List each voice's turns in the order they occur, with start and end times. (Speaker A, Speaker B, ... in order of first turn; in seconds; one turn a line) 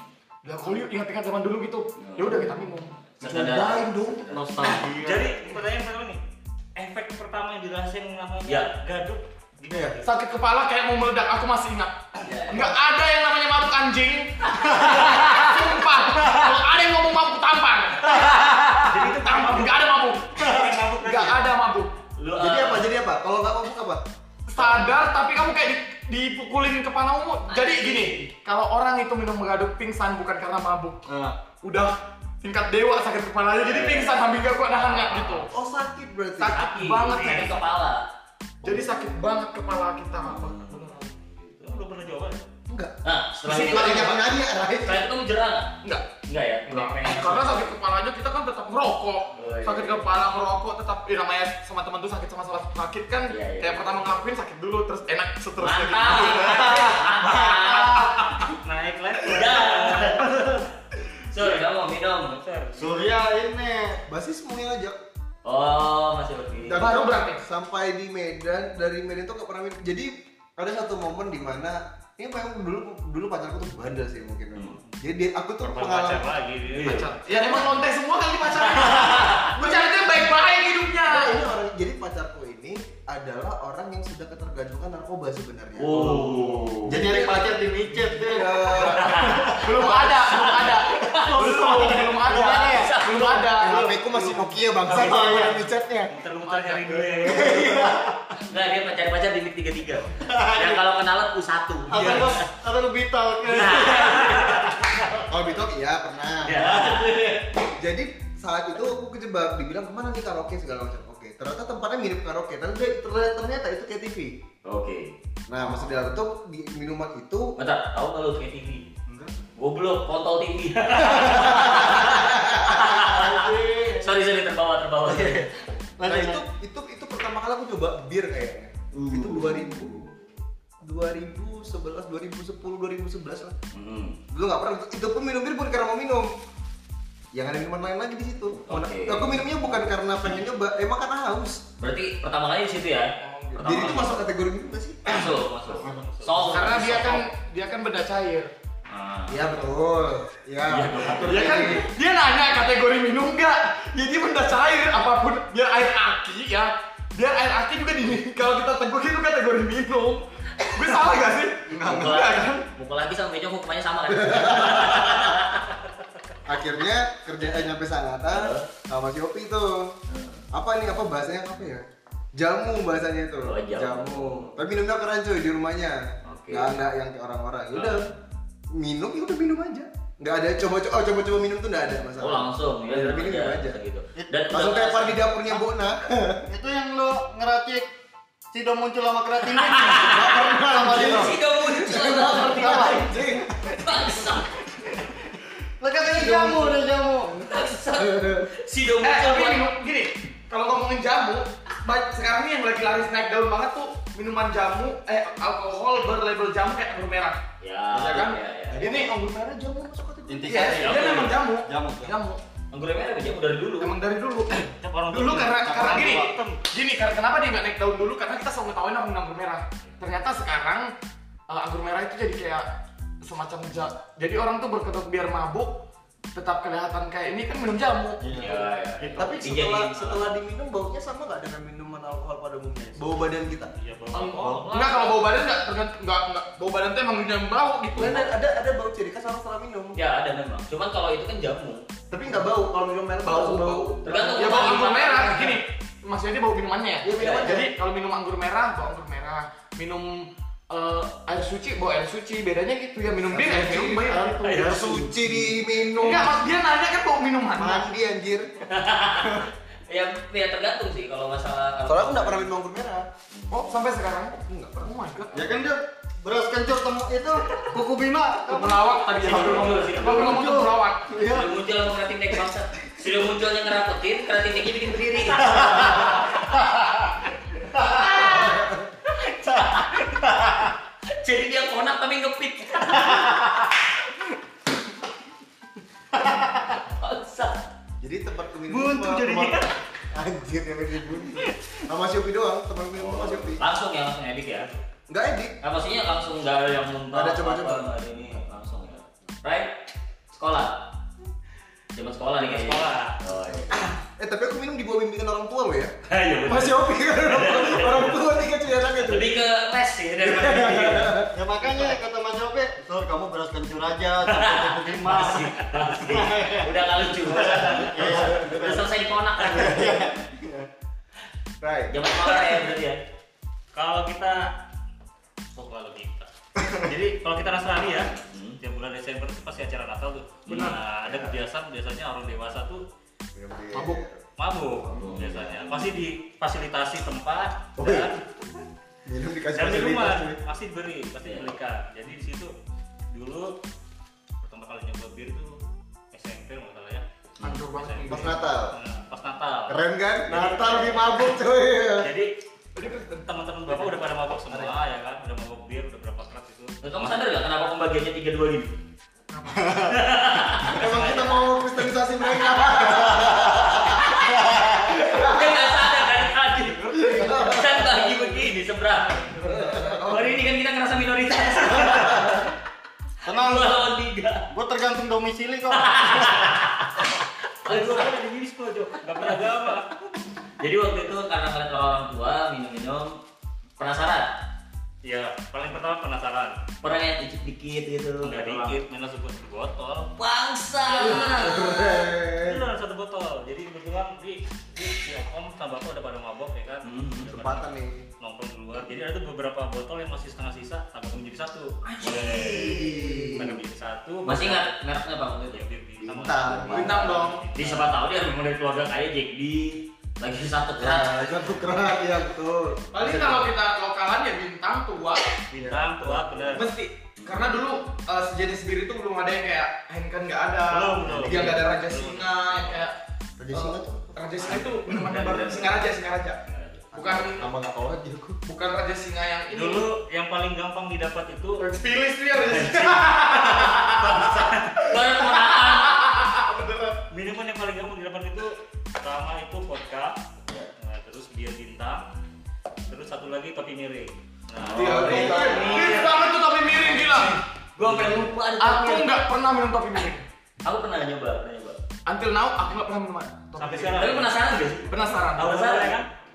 Speaker A: 0.4-3.0
Speaker B: 2.0-4.8
Speaker C: 3.2-4.3
Speaker D: 4.3-5.3
Speaker E: 4.8-6.2
Speaker E: 6.7-10.0
Speaker B: 8.4-8.7
Speaker C: 9.7-10.0
Speaker A: 10.0-21.9
Speaker B: 12.2-12.7
Speaker B: 14.5-15.2
Speaker B: 18.8-19.8
Speaker E: 19.1-19.7
Speaker E: 20.3-21.5
Speaker B: 22.2-22.9
Speaker C: 22.4-24.0
Speaker A: 24.5-31.1
Speaker B: 24.6-24.8
Speaker B: 27.5-28.2
Speaker D: 31.1-31.4
Speaker A: 31.6-35.5
Speaker B: 33.6-35.5
Speaker C: 35.5-36.6
Speaker A: 36.4-37.6
Speaker B: 36.5-38.0
Speaker C: 38.6-39.0
Speaker A: 38.6-41.1
Speaker B: 40.2-41.8
Speaker E: 41.6-42.5
Speaker C: 42.7-42.9
Speaker B: 43.0-44.2
Speaker A: 43.4-44.2
Speaker C: 43.5-45.1
Speaker B: 44.8-47.8
Speaker A: 46.7-57.0
Speaker B: 49.4-50.1
Speaker B: 53.3-53.9
Speaker B: 55.6-58.1
Speaker D: 56.2-58.2
Speaker A: 57.9-58.5
Speaker E: 58.5-60.6
Speaker B: 59.3-60.6
Speaker B: 61.3-62.3
Speaker E: 62.3-63.1
Speaker D: 62.8-64.0
Speaker C: 64.1-65.0
Speaker B: 65.4-66.9
Speaker C: 66.6-76.3
Speaker A: 66.8-67.4
Speaker E: 75.6-77.1
Speaker B: 76.7-77.1
Speaker A: 76.8-81.3
Speaker B: 79.0-79.4
Speaker C: 79.5-80.4
Speaker C: 81.0-86.2
Speaker B: 85.8-87.0
Speaker D: 85.9-89.6
Speaker C: 86.9-90.1
Speaker B: 89.0-93.5
Speaker A: 89.6-94.4
Speaker D: 91.1-93.0
Speaker C: 93.6-96.1
Speaker D: 93.6-95.6
Speaker E: 96.1-97.9
Speaker A: 96.4-97.0
Speaker D: 97.2-98.2
Speaker C: 97.4-97.9
Speaker B: 98.4-102.5
Speaker D: 100.2-100.8
Speaker D: 101.9-104.7
Speaker A: 102.0-102.2
Speaker B: 103.5-105.2
Speaker C: 105.2-106.7
Speaker B: 106.4-107.4
Speaker D: 106.5-107.5
Speaker C: 107.6-114.3
Speaker B: 114.6-115.1
Speaker C: 115.5-117.5
Speaker B: 117.6-118.8
Speaker B: 119.6-125.5
Speaker C: 121.0-123.2
Speaker A: 123.2-124.1
Speaker D: 125.1-125.4
Speaker D: 126.0-126.4
Speaker C: 126.1-130.1
Speaker D: 128.9-129.7
Speaker C: 130.8-133.6
Speaker B: 133.7-134.2
Speaker C: 134.3-136.3
Speaker C: 137.3-141.6
Speaker B: 138.7-139.4
Speaker B: 141.8-144.2
Speaker A: 143.2-144.0
Speaker C: 143.5-145.4
Speaker B: 145.1-147.3
Speaker E: 145.8-146.5
Speaker D: 145.8-146.7
Speaker A: 146.5-148.5
Speaker B: 148.9-149.6
Speaker C: 149.3-151.8
Speaker B: 150.7-151.8
Speaker A: 151.3-162.7
Speaker D: 161.7-162.4
Speaker B: 161.8-165.7
Speaker C: 164.1-165.4
Speaker C: 166.4-169.9
Speaker B: 168.3-168.6
Speaker B: 170.1-170.4
Speaker C: 170.5-171.8
Speaker C: 172.3-178.1
Speaker B: 173.4-174.6
Speaker B: 176.2-176.7
Speaker C: 178.7-183.8
Speaker B: 182.2-185.2
Speaker C: 184.5-186.4
Speaker D: 186.5-187.9
Speaker D: 188.5-191.4
Speaker B: 189.5-193.1
Speaker C: 190.0-193.5
Speaker D: 192.2-193.8
Speaker B: 193.7-194.6
Speaker D: 194.7-197.3
Speaker C: 196.0-196.8
Speaker C: 197.3-198.5
Speaker B: 197.4-199.7
Speaker A: 199.0-207.4
Speaker B: 207.6-209.1
Speaker D: 207.9-208.3
Speaker A: 208.1-209.1
Speaker C: 208.7-211.2
Speaker D: 210.3-212.2
Speaker A: 210.5-212.4
Speaker B: 210.7-211.3
Speaker B: 212.7-213.9
Speaker A: 213.8-214.6
Speaker E: 214.8-216.3
Speaker A: 215.1-220.9
Speaker D: 215.3-216.6
Speaker A: 221.5-222.7
Speaker A: 223.2-225.7
Speaker A: 226.3-228.6
Speaker D: 228.2-229.3
Speaker B: 228.3-230.3
Speaker C: 229.2-233.7
Speaker E: 233.8-235.2
Speaker A: 234.1-238.3
Speaker D: 234.3-234.7
Speaker C: 237.9-240.0
Speaker B: 239.9-241.8
Speaker C: 242.1-244.7
Speaker A: 243.2-254.7
Speaker B: 244.0-245.6
Speaker C: 247.0-247.7
Speaker B: 247.1-247.5
Speaker D: 253.3-255.7
Speaker B: 254.5-254.7
Speaker C: 254.5-256.4
Speaker A: 255.9-257.9
Speaker C: 257.6-258.5
Speaker B: 258.7-262.5
Speaker C: 261.9-263.1
Speaker B: 263.3-263.8
Speaker A: 263.5-265.3
Speaker C: 264.5-265.3
Speaker D: 265.3-271.5
Speaker A: 268.4-271.1
Speaker B: 269.1-270.5
Speaker B: 271.1-276.5
Speaker D: 275.4-276.4
Speaker D: 277.7-278.1
Speaker B: 277.8-283.5
Speaker C: 278.4-278.7
Speaker D: 280.2-280.6
Speaker D: 283.2-283.6
Speaker D: 286.2-286.4
Speaker B: 286.4-287.6
Speaker C: 288.0-293.6
Speaker D: 288.7-289.6
Speaker E: 288.9-289.6
Speaker B: 292.9-294.7
Speaker C: 295.1-295.5
Speaker B: 295.6-299.7
Speaker C: 297.1-297.9
Speaker B: 300.3-300.8
Speaker B: 301.9-303.8
Speaker E: 302.4-303.2
Speaker C: 303.7-305.9
Speaker B: 306.1-306.8
Speaker C: 306.4-309.3
Speaker B: 307.3-308.1
Speaker B: 309.0-311.2
Speaker C: 310.2-311.3
Speaker D: 311.3-318.9
Speaker B: 314.3-320.1
Speaker E: 317.3-318.0
Speaker D: 319.4-320.7
Speaker C: 321.6-321.9
Speaker B: 321.9-323.0
Speaker E: 323.7-324.5
Speaker E: 325.6-326.3
Speaker D: 326.6-326.9
Speaker E: 326.8-332.8
Speaker B: 328.1-328.6
Speaker A: 330.5-330.8
Speaker B: 330.5-330.7
Speaker C: 331.0-331.4
Speaker C: 333.3-334.2
Speaker A: 333.7-334.0
Speaker E: 334.4-338.2
Speaker C: 334.8-335.8
Speaker B: 334.9-335.8
Speaker C: 337.8-338.2
Speaker C: 339.0-340.4
Speaker E: 339.5-342.5
Speaker B: 341.2-341.5
Speaker E: 343.1-343.5
Speaker E: 344.4-345.6
Speaker E: 346.1-351.1
Speaker A: 347.4-348.4
Speaker C: 348.1-348.8
Speaker C: 349.7-352.1
Speaker E: 352.0-352.3
Speaker A: 352.8-353.3
Speaker E: 353.2-357.2
Speaker B: 356.8-358.8
Speaker A: 359.3-359.9
Speaker D: 359.5-360.0
Speaker B: 359.8-361.0
Speaker C: 360.7-365.9
Speaker E: 360.8-361.3
Speaker B: 363.8-366.8
Speaker C: 366.8-367.9
Speaker D: 366.9-367.4
Speaker B: 367.4-369.4
Speaker C: 369.4-370.5
Speaker B: 370.0-372.5
Speaker D: 373.2-373.8
Speaker B: 373.3-374.5
Speaker D: 374.5-376.6
Speaker B: 375.7-377.1
Speaker E: 377.6-380.0
Speaker B: 377.6-378.1
Speaker B: 380.6-383.1
Speaker B: 383.8-384.3
Speaker E: 385.0-386.6
Speaker B: 386.8-388.8
Speaker E: 388.2-390.1
Speaker B: 390.1-391.9
Speaker C: 390.9-392.6
Speaker E: 392.4-404.7
Speaker B: 396.8-397.4
Speaker C: 397.2-398.1
Speaker C: 402.0-403.6
Speaker B: 404.2-405.6
Speaker E: 405.5-407.9
Speaker C: 406.0-407.2
Speaker B: 406.3-411.2
Speaker A: 406.7-407.4
Speaker C: 410.8-413.5
Speaker A: 412.9-415.4
Speaker E: 415.5-416.7
Speaker D: 415.6-416.5
Speaker A: 416.5-422.9
Speaker B: 417.2-417.5
Speaker E: 420.7-422.9
Speaker C: 423.4-424.6
Speaker A: 423.5-426.4
Speaker B: 424.5-425.9
Speaker B: 426.4-426.9
Speaker C: 426.9-428.4
Speaker A: 426.9-427.5
Speaker A: 428.4-429.9
Speaker E: 429.5-431.7
Speaker A: 431.6-436.9
Speaker E: 432.4-434.7
Speaker B: 433.5-436.1
Speaker E: 437.1-440.2
Speaker E: 440.8-442.0
Speaker E: 442.9-447.3
Speaker B: 444.6-446.2
Speaker C: 444.7-446.0
Speaker A: 444.7-447.3
Speaker B: 446.8-449.2
Speaker A: 448.6-450.2
Speaker B: 450.6-451.8
Speaker A: 452.1-454.2
Speaker E: 453.6-456.1
Speaker B: 454.0-455.9
Speaker A: 454.8-455.9